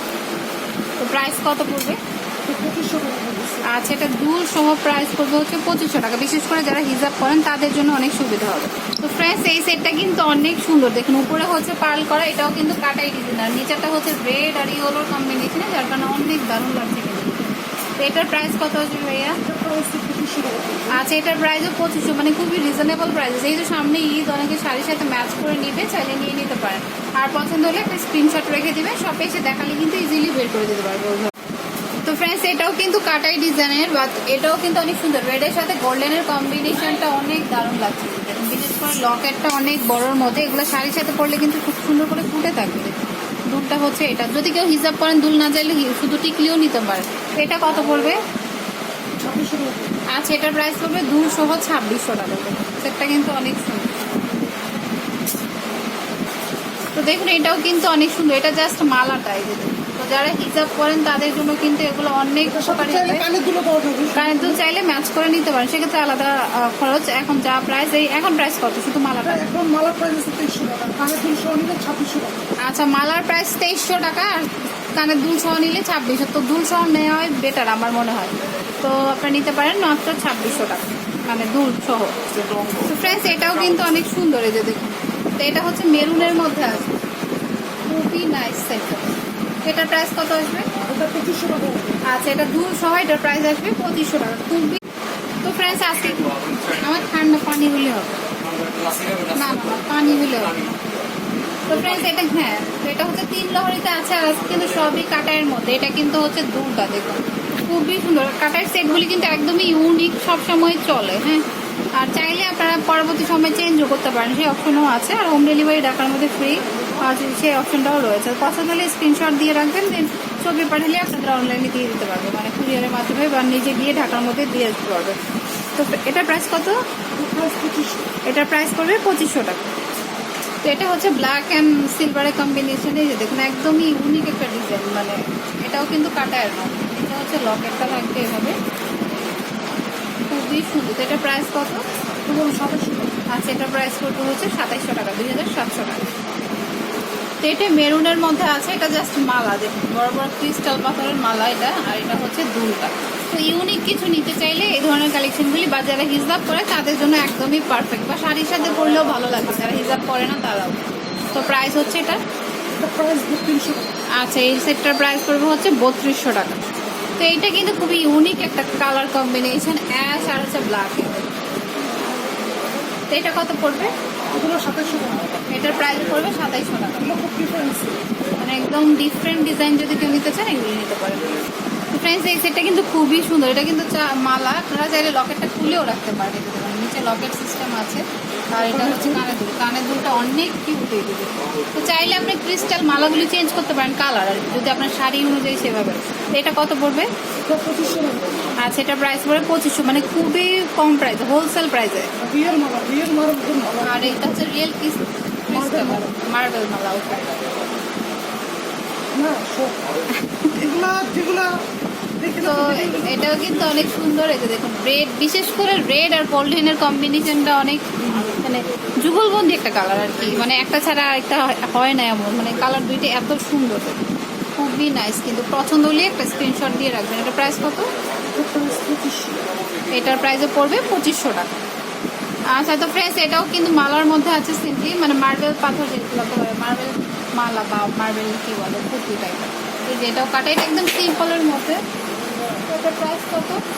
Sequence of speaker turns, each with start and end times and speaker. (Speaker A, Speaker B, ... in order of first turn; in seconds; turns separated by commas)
Speaker A: 1.0-2.0, Speaker B: 2.4-3.7, Speaker A: 3.6-19.4, Speaker B: 19.4-21.0, Speaker A: 20.9-31.3, Speaker A: 32.0-42.9, Speaker A: 43.5-48.2, Speaker B: 49.2-50.0, Speaker A: 50.1-54.2, Speaker A: 56.9-63.2, Speaker B: 62.5-64.6, Speaker A: 64.1-69.4, Speaker B: 69.2-72.4, Speaker A: 72.6-82.2, Speaker A: 82.8-86.9, Speaker A: 87.9-90.7, Speaker B: 90.8-92.0, Speaker A: 92.0-94.8, Speaker A: 95.4-98.2, Speaker A: 99.3-100.8, Speaker A: 101.7-111.4, Speaker A: 112.0-125.2, Speaker B: 116.7-117.0, Speaker A: 125.7-126.8, Speaker B: 127.2-128.1, Speaker A: 128.2-129.7, Speaker A: 130.6-138.5, Speaker A: 140.3-141.8, Speaker B: 142.2-143.1, Speaker A: 143.3-146.1, Speaker A: 147.4-162.2, Speaker B: 162.8-163.9, Speaker A: 164.2-166.6, Speaker A: 167.2-171.3, Speaker A: 173.1-173.9, Speaker B: 174.3-175.3, Speaker A: 175.5-177.1, Speaker B: 177.0-177.9, Speaker A: 178.4-181.3, Speaker A: 181.9-197.1, Speaker B: 188.5-189.3, Speaker B: 197.4-198.4, Speaker A: 198.6-202.1, Speaker B: 202.2-204.4, Speaker A: 203.8-207.3, Speaker B: 205.5-206.1, Speaker B: 209.1-209.8, Speaker A: 210.2-210.6, Speaker B: 210.6-211.6, Speaker B: 212.2-213.6, Speaker A: 212.4-224.0, Speaker A: 224.6-227.9, Speaker B: 228.3-229.5, Speaker A: 229.9-231.5, Speaker A: 232.5-241.8, Speaker A: 242.7-243.6